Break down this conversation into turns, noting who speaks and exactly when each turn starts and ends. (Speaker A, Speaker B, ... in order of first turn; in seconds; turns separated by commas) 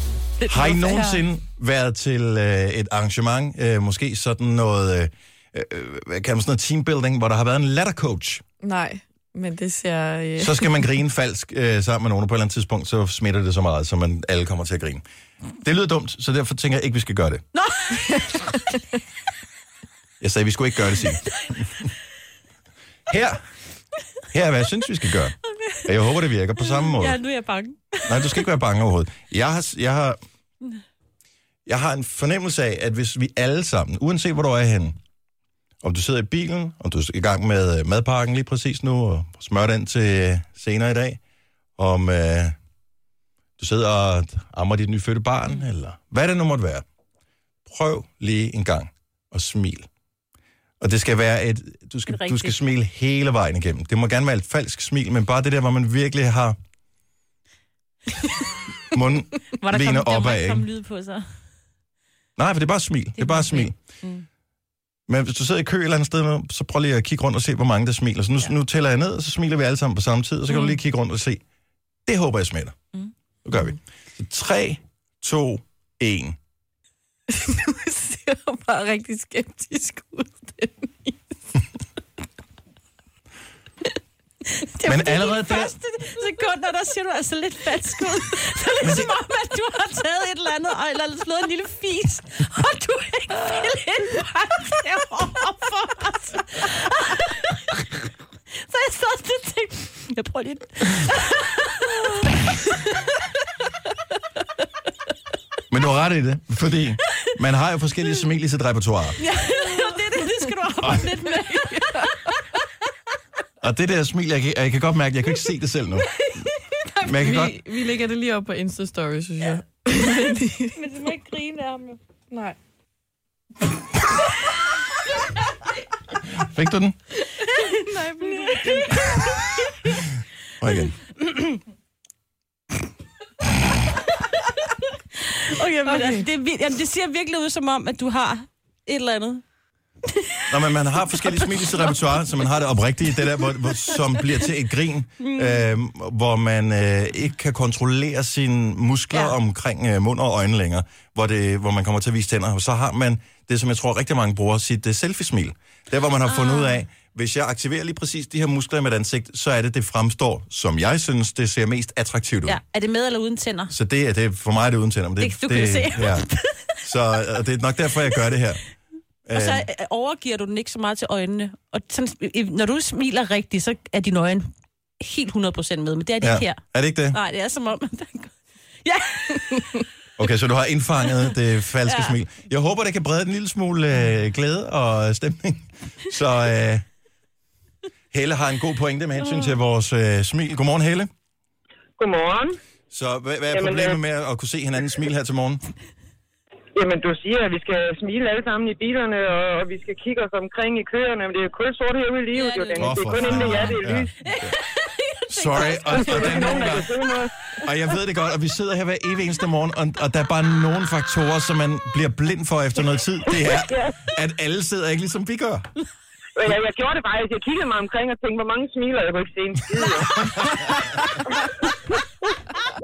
Speaker A: 0.4-1.2, Speaker B: 0.5-8.4, Speaker A: 8.6-10.8, Speaker B: 10.4-15.0, Speaker B: 15.6-17.4, Speaker C: 17.5-18.7, Speaker B: 20.2-21.9, Speaker B: 23.1-23.4, Speaker B: 24.3-27.2, Speaker C: 25.4-25.9, Speaker C: 26.6-28.4, Speaker B: 28.1-30.2, Speaker B: 31.7-35.0, Speaker B: 35.8-41.2, Speaker B: 41.8-42.5, Speaker B: 43.6-46.8, Speaker B: 47.7-49.9, Speaker B: 50.8-56.6, Speaker C: 52.1-52.6, Speaker B: 58.9-60.7, Speaker C: 59.5-61.3, Speaker B: 62.4-63.8, Speaker C: 63.2-64.2, Speaker B: 65.1-71.4, Speaker C: 70.5-70.8, Speaker B: 72.1-72.8, Speaker B: 73.4-76.4, Speaker A: 77.3-81.2, Speaker C: 84.6-97.8, Speaker B: 84.8-85.7, Speaker B: 88.8-89.1, Speaker C: 98.6-103.1, Speaker B: 105.7-109.2, Speaker C: 109.2-112.6, Speaker A: 111.3-112.1, Speaker B: 113.6-116.1, Speaker C: 116.1-117.4, Speaker A: 117.0-120.9, Speaker B: 117.0-117.6, Speaker C: 120.8-122.0, Speaker A: 122.3-122.6, Speaker B: 126.3-127.0, Speaker C: 127.4-129.7, Speaker A: 127.7-129.2, Speaker B: 130.6-130.9, Speaker C: 130.7-131.5, Speaker C: 135.2-139.4, Speaker A: 135.8-136.3, Speaker C: 140.2-140.5, Speaker B: 140.5-162.6, Speaker C: 141.1-142.0, Speaker C: 143.3-144.5, Speaker C: 145.2-145.6, Speaker C: 149.1-149.4, Speaker C: 156.3-156.8, Speaker C: 162.5-163.7, Speaker B: 163.7-166.3, Speaker C: 165.2-167.0, Speaker B: 166.8-168.6, Speaker B: 169.3-169.7, Speaker C: 169.3-179.9, Speaker B: 176.2-177.2, Speaker B: 180.2-186.9, Speaker C: 181.0-181.3, Speaker C: 181.9-182.2, Speaker B: 188.1-191.1, Speaker C: 189.2-189.6, Speaker D: 192.0-192.6, Speaker B: 192.9-195.6, Speaker D: 193.5-194.0, Speaker D: 196.8-204.1, Speaker C: 202.3-207.0, Speaker B: 202.8-204.5, Speaker B: 205.3-206.9, Speaker D: 205.6-207.3, Speaker B: 207.6-215.7, Speaker D: 213.3-214.0, Speaker D: 216.4-221.7